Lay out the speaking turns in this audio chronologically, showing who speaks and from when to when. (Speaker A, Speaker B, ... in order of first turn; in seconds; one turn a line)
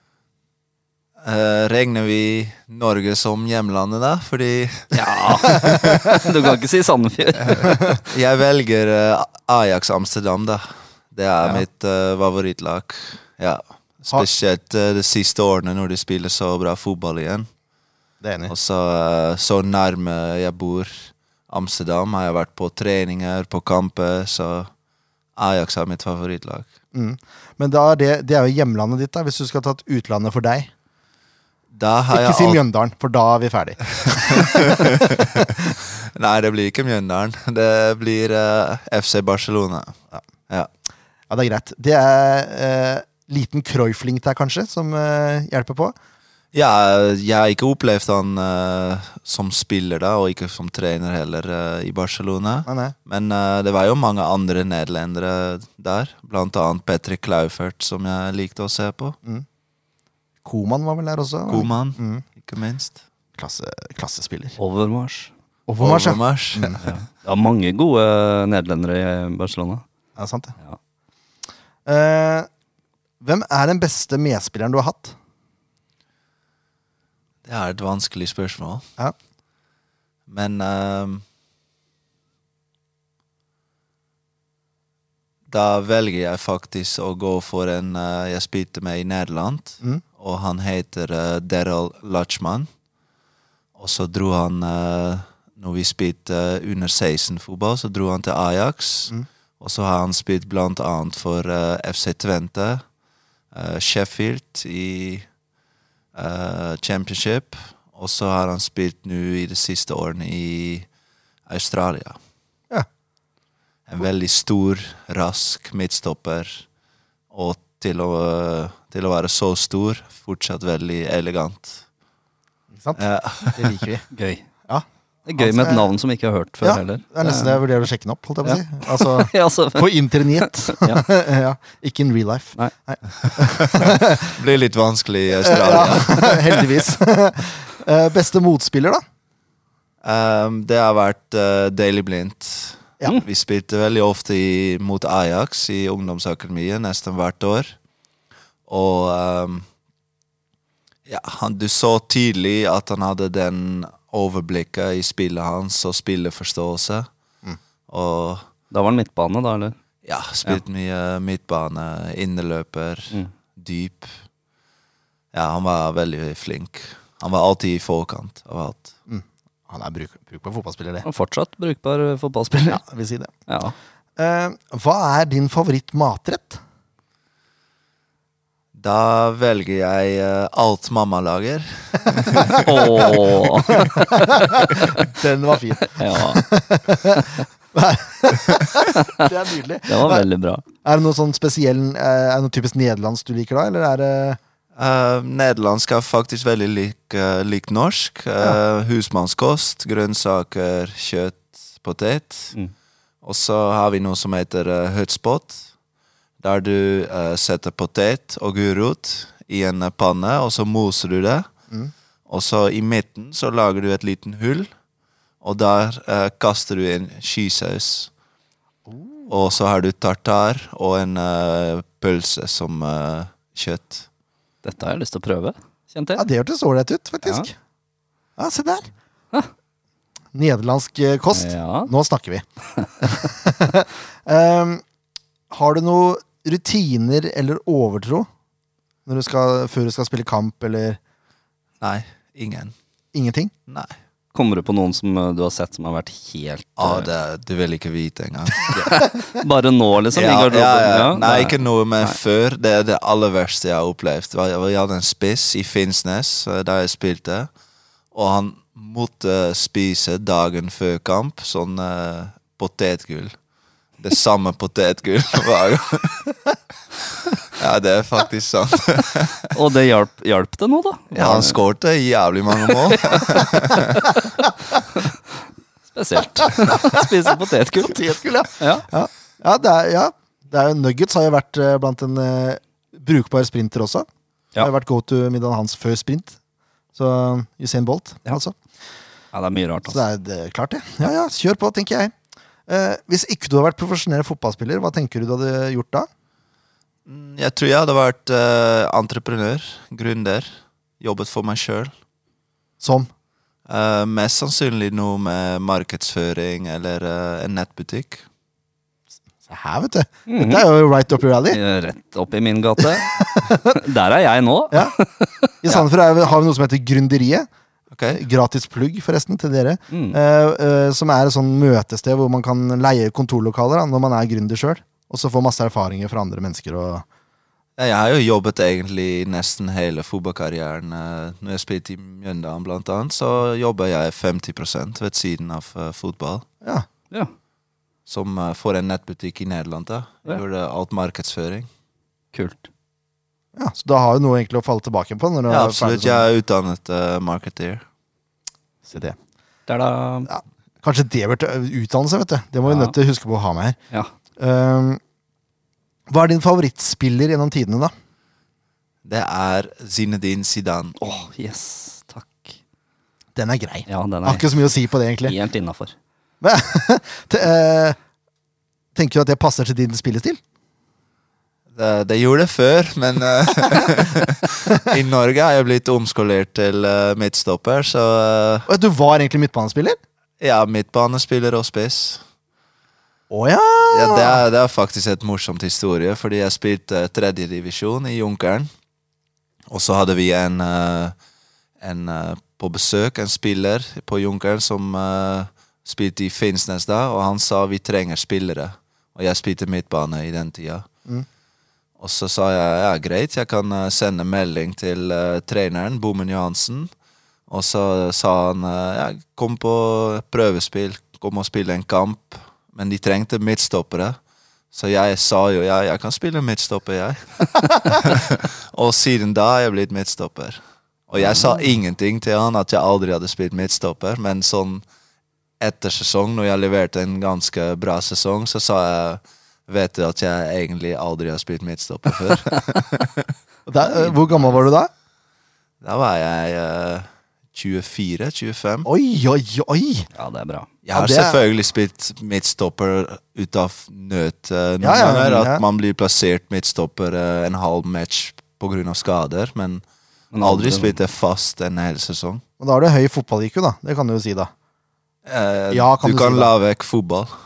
Speaker A: 1.2-6.2
Speaker B: 4.9-8.0
Speaker A: 7.5-17.5
Speaker C: 18.2-18.5
Speaker A: 18.5-24.7
Speaker A: 25.4-26.7
Speaker C: 26.9-30.7
Speaker A: 31.7-32.6
Speaker C: 32.1-35.5
Speaker A: 34.0-40.0
Speaker C: 41.3-46.0
Speaker A: 46.5-59.2
Speaker C: 52.7-53.0
Speaker C: 60.5-62.2
Speaker A: 61.5-63.0
Speaker C: 63.4-64.6
Speaker B: 64.6-65.3
Speaker C: 65.7-66.8
Speaker A: 65.8-66.8
Speaker B: 66.8-69.8
Speaker C: 70.2-70.5
Speaker C: 71.9-72.5
Speaker C: 73.2-75.2
Speaker A: 77.5-78.9
Speaker A: 80.3-81.2
Speaker A: 85.5-92.7
Speaker A: 93.8-102.8
Speaker A: 103.5-105.3
Speaker A: 106.2-110.9
Speaker A: 111.5-112.2
Speaker A: 113.9-116.7
Speaker A: 117.3-121.8
Speaker C: 122.8-124.0
Speaker A: 123.0-123.8
Speaker B: 124.1-124.4
Speaker B: 125.3-127.6
Speaker C: 125.4-125.9
Speaker C: 126.6-134.4
Speaker B: 128.4-131.0
Speaker A: 133.4-136.7
Speaker C: 135.4-139.0
Speaker A: 140.0-147.8
Speaker A: 148.7-149.7
Speaker A: 151.1-157.1
Speaker A: 157.9-158.4
Speaker B: 158.7-159.8
Speaker A: 160.1-164.1
Speaker A: 165.3-168.9
Speaker C: 169.1-171.1
Speaker B: 171.0-172.8
Speaker C: 172.5-173.3
Speaker B: 173.5-173.7
Speaker C: 174.2-176.6
Speaker A: 178.8-183.1
Speaker C: 182.3-182.6
Speaker B: 182.4-184.0
Speaker C: 183.7-190.3
Speaker B: 185.9-186.4
Speaker B: 188.9-189.3
Speaker B: 189.9-190.6
Speaker C: 190.8-194.4
Speaker A: 194.8-202.6
Speaker A: 203.2-205.7
Speaker A: 206.4-211.5
Speaker A: 212.3-214.7
Speaker A: 215.4-218.1
Speaker C: 218.9-219.3
Speaker A: 219.3-224.1
Speaker B: 224.6-226.2
Speaker C: 226.2-227.5
Speaker C: 228.4-228.9
Speaker C: 230.3-232.4
Speaker B: 231.3-231.9
Speaker C: 233.0-234.8
Speaker C: 235.5-238.3
Speaker C: 239.1-241.0
Speaker A: 241.8-242.8
Speaker C: 243.1-243.5
Speaker A: 243.7-243.9
Speaker B: 244.3-247.1
Speaker A: 246.8-248.9
Speaker B: 248.7-252.2
Speaker A: 250.1-257.5
Speaker A: 258.1-263.3
Speaker A: 264.0-266.3
Speaker A: 267.5-269.5
Speaker B: 269.5-271.6
Speaker A: 271.1-274.0
Speaker B: 272.7-273.9
Speaker B: 275.9-278.9
Speaker C: 276.6-277.0
Speaker C: 277.8-284.1
Speaker C: 284.6-286.4
Speaker C: 286.9-288.6
Speaker B: 289.3-290.0
Speaker C: 289.9-292.1
Speaker C: 292.7-296.1
Speaker A: 297.1-301.9
Speaker C: 302.8-303.1
Speaker A: 303.7-308.2
Speaker C: 309.5-311.6
Speaker B: 310.3-310.7
Speaker B: 311.5-315.5
Speaker C: 313.2-313.8
Speaker C: 315.6-317.5
Speaker A: 317.9-318.2
Speaker C: 318.1-327.1
Speaker B: 319.9-320.2
Speaker A: 327.8-336.5
Speaker A: 338.1-341.7
Speaker B: 342.3-342.7
Speaker C: 343.6-346.3
Speaker A: 345.5-347.8
Speaker C: 348.9-349.2
Speaker B: 349.7-350.3
Speaker C: 350.3-353.8
Speaker B: 352.6-352.9
Speaker C: 354.4-355.0
Speaker C: 356.1-357.9
Speaker A: 359.0-361.0
Speaker B: 361.0-362.6
Speaker C: 363.4-365.4
Speaker B: 363.9-364.5
Speaker B: 365.2-365.9
Speaker C: 366.4-368.0
Speaker C: 368.9-370.4
Speaker A: 371.7-378.7
Speaker C: 378.7-380.0
Speaker A: 380.4-382.2
Speaker C: 383.3-384.4
Speaker A: 383.9-388.7
Speaker A: 389.7-391.1
Speaker A: 391.8-400.9
Speaker A: 402.0-406.9
Speaker A: 407.5-414.2
Speaker A: 414.7-424.8
Speaker A: 425.6-433.3
Speaker C: 433.7-434.9
Speaker A: 435.8-438.9
Speaker C: 438.9-440.1
Speaker B: 440.2-440.7
Speaker A: 440.9-449.8
Speaker C: 440.9-441.4
Speaker C: 444.8-445.6
Speaker B: 450.3-451.0
Speaker A: 450.4-452.4
Speaker C: 452.6-454.5
Speaker A: 455.3-457.3
Speaker C: 455.7-456.5